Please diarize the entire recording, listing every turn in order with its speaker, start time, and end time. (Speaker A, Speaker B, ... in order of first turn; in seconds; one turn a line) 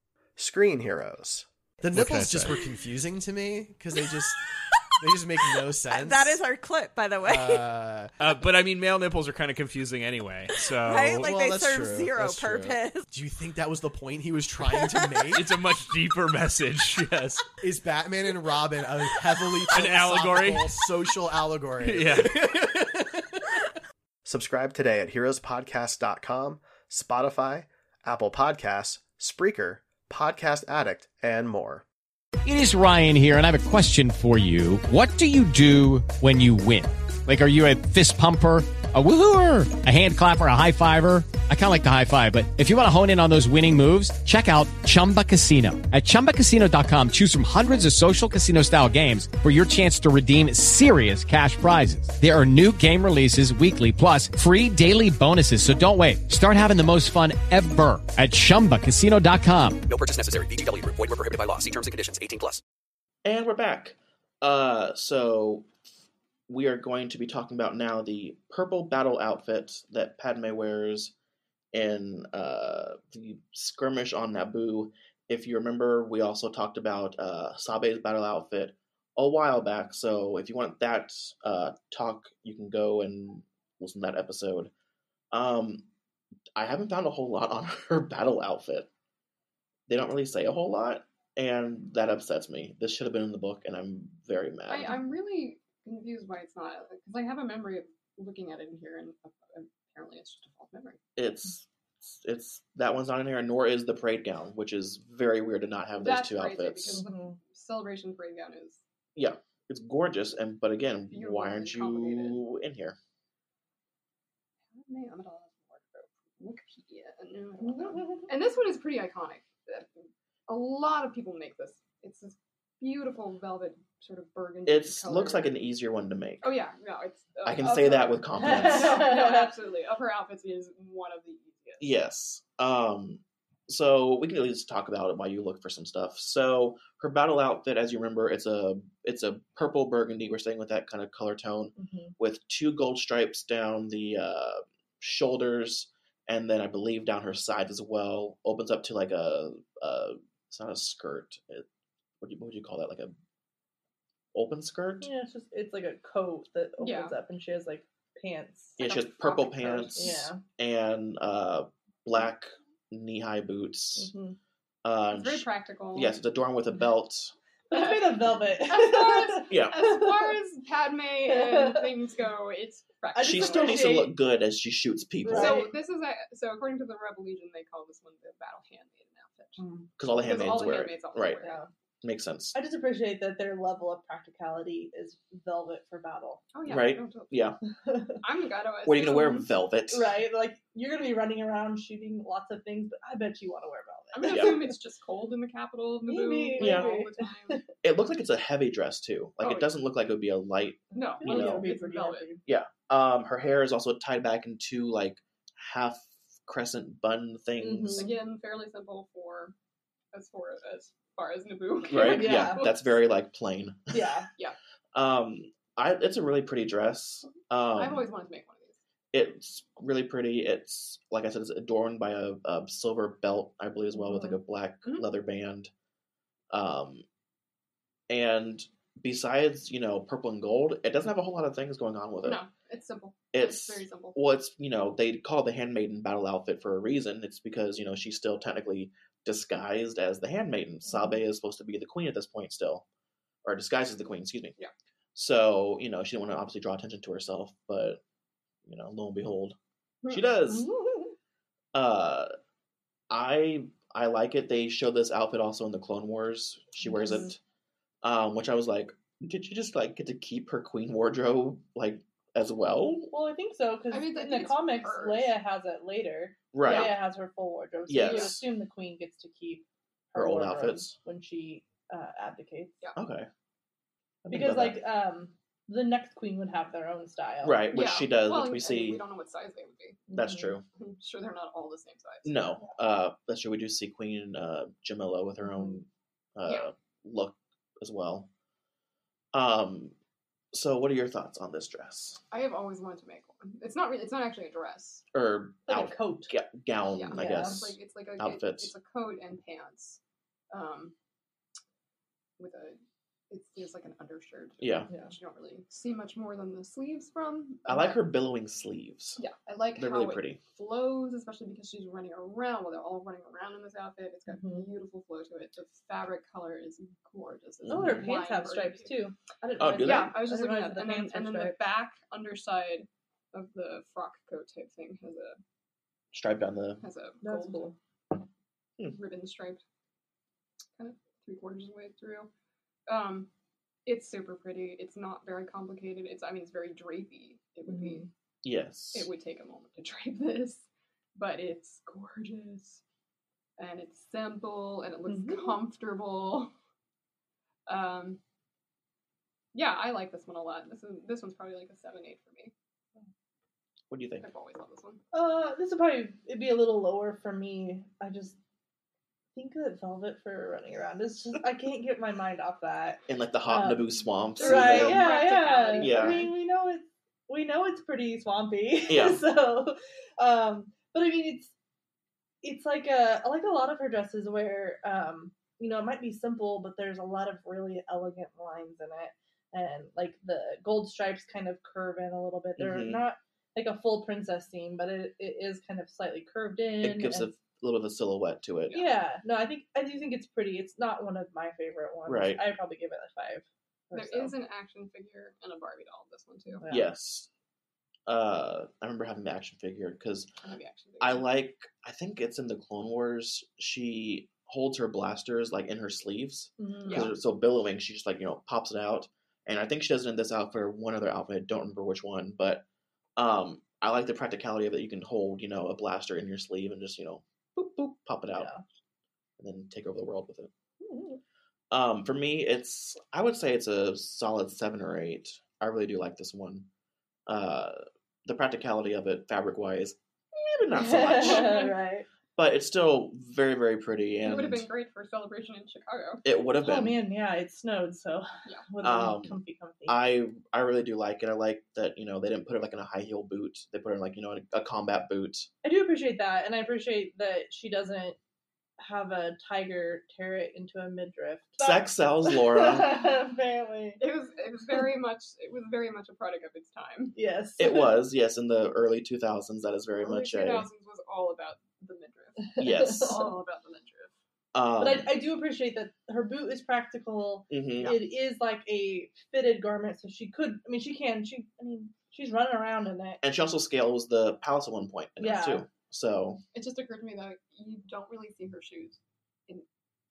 Speaker A: 0.4-2.5
Speaker B: 1.8-4.4
Speaker B: 5.0-6.4
Speaker C: 5.9-7.6
Speaker B: 7.2-8.1
Speaker D: 8.2-11.5
Speaker C: 10.9-13.1
Speaker B: 11.2-15.5
Speaker C: 14.7-15.0
Speaker D: 15.3-17.5
Speaker B: 17.6-22.7
Speaker D: 19.7-20.8
Speaker D: 21.8-22.9
Speaker A: 24.2-31.8
Speaker E: 32.4-59.8
Speaker F: 60.0-62.6
Speaker G: 63.2-65.7
Speaker G: 66.5-71.1
Speaker G: 71.7-84.7
Speaker G: 85.3-85.8
Speaker G: 86.5-88.9
Speaker G: 89.9-95.0
Speaker H: 94.7-101.0
Speaker G: 101.2-107.0
Speaker H: 106.0-108.8
Speaker I: 106.9-107.3
Speaker G: 109.2-113.0
Speaker H: 111.1-112.4
Speaker H: 114.7-125.5
Speaker I: 117.9-118.2
Speaker G: 124.7-126.5
Speaker H: 126.4-131.9
Speaker G: 127.4-129.1
Speaker I: 128.4-129.5
Speaker G: 131.8-151.6
Speaker I: 141.8-142.1
Speaker G: 152.2-153.1
Speaker G: 154.3-155.1
Speaker I: 155.0-158.8
Speaker H: 156.8-157.1
Speaker G: 158.8-164.1
Speaker H: 158.8-160.2
Speaker I: 159.9-160.4
Speaker I: 164.0-164.4
Speaker G: 164.8-167.3
Speaker H: 165.1-166.2
Speaker I: 167.7-170.0
Speaker H: 167.7-174.1
Speaker G: 169.5-170.0
Speaker I: 171.3-171.8
Speaker I: 173.1-174.1
Speaker G: 173.2-175.6
Speaker I: 175.2-175.7
Speaker H: 175.3-181.6
Speaker I: 179.6-179.9
Speaker G: 180.0-181.4
Speaker I: 181.4-181.7
Speaker G: 182.0-182.5
Speaker I: 182.5-186.4
Speaker H: 186.5-187.6
Speaker G: 186.7-187.6
Speaker I: 187.8-188.2
Speaker H: 188.2-189.5
Speaker G: 188.8-190.2
Speaker I: 189.9-194.7
Speaker H: 194.1-197.6
Speaker G: 194.3-194.6
Speaker I: 196.1-197.6
Speaker G: 196.6-197.0
Speaker G: 197.8-201.7
Speaker H: 199.4-199.7
Speaker H: 200.9-202.3
Speaker I: 200.9-202.4
Speaker G: 202.4-208.1
Speaker I: 207.6-208.1
Speaker H: 208.0-209.5
Speaker H: 210.1-212.9
Speaker G: 211.9-214.0
Speaker I: 212.0-212.7
Speaker I: 213.9-214.3
Speaker G: 214.9-218.0
Speaker H: 217.7-218.8
Speaker G: 219.1-225.7
Speaker I: 224.0-224.3
Speaker G: 226.5-227.0
Speaker G: 228.1-232.4
Speaker H: 232.2-234.2
Speaker G: 233.3-242.8
Speaker G: 243.4-244.5
Speaker G: 245.1-248.0
Speaker G: 248.6-249.6
Speaker G: 250.1-250.7
Speaker I: 250.5-251.1
Speaker G: 251.7-252.3
Speaker G: 253.1-257.4
Speaker I: 256.8-257.3
Speaker G: 258.0-263.1
Speaker I: 263.1-272.8
Speaker H: 263.9-265.3
Speaker G: 266.5-267.0
Speaker H: 266.6-266.9
Speaker G: 267.9-268.4
Speaker H: 268.0-268.3
Speaker G: 270.1-270.9
Speaker G: 272.9-273.3
Speaker G: 274.2-274.8
Speaker I: 274.3-277.7
Speaker G: 277.4-279.0
Speaker H: 277.7-280.1
Speaker I: 280.1-280.5
Speaker G: 280.1-280.6
Speaker H: 280.8-282.4
Speaker G: 282.2-288.3
Speaker G: 289.3-289.9
Speaker G: 290.5-292.2
Speaker H: 292.3-295.0
Speaker G: 295.1-298.7
Speaker I: 295.7-296.3
Speaker H: 296.9-300.0
Speaker I: 297.1-297.7
Speaker H: 300.5-300.9
Speaker H: 302.4-302.8
Speaker H: 303.3-308.0
Speaker G: 304.6-304.9
Speaker G: 307.7-309.2
Speaker H: 309.2-318.9
Speaker G: 309.8-310.4
Speaker I: 314.3-314.6
Speaker G: 317.6-318.1
Speaker I: 317.7-321.6
Speaker G: 319.6-320.1
Speaker H: 319.8-325.4
Speaker G: 326.1-326.8
Speaker H: 326.8-327.7
Speaker I: 327.2-327.8
Speaker H: 328.9-329.6
Speaker H: 330.8-332.3
Speaker H: 332.9-333.3
Speaker H: 333.9-338.1
Speaker I: 337.7-338.1
Speaker G: 338.4-339.1
Speaker H: 338.9-342.8
Speaker H: 343.6-346.5
Speaker I: 345.1-345.5
Speaker H: 347.7-348.2
Speaker H: 349.5-352.5
Speaker G: 353.9-354.2
Speaker H: 354.2-355.0
Speaker I: 355.1-358.4
Speaker I: 359.4-363.8
Speaker G: 363.1-365.1
Speaker H: 364.4-366.2
Speaker I: 364.4-371.5
Speaker G: 365.7-366.3
Speaker G: 368.9-369.2
Speaker I: 372.4-387.3
Speaker G: 382.6-383.0
Speaker G: 386.8-388.8
Speaker I: 388.7-394.3
Speaker G: 392.1-392.4
Speaker H: 393.9-396.6
Speaker I: 396.6-396.9
Speaker G: 396.7-397.3
Speaker G: 398.1-400.3
Speaker H: 400.4-401.3
Speaker G: 401.0-412.6
Speaker I: 406.6-407.1
Speaker H: 406.9-407.1
Speaker G: 413.1-418.5
Speaker I: 418.4-418.6
Speaker G: 419.4-420.5
Speaker I: 420.8-421.2
Speaker G: 421.7-426.7
Speaker G: 427.3-431.7
Speaker I: 430.7-432.1
Speaker H: 431.2-431.7
Speaker G: 432.4-434.7
Speaker H: 434.2-436.2
Speaker G: 436.2-437.0
Speaker I: 436.6-440.0
Speaker G: 438.8-445.5
Speaker I: 445.6-448.2
Speaker I: 448.8-454.0
Speaker G: 451.6-453.1
Speaker H: 454.0-457.1
Speaker I: 457.1-458.0
Speaker G: 457.6-460.7
Speaker H: 460.0-464.1
Speaker I: 462.6-463.3
Speaker G: 462.6-463.3
Speaker G: 464.5-465.1
Speaker I: 464.8-473.2
Speaker G: 467.5-468.0
Speaker G: 473.2-476.4
Speaker I: 475.2-475.6
Speaker H: 476.5-479.6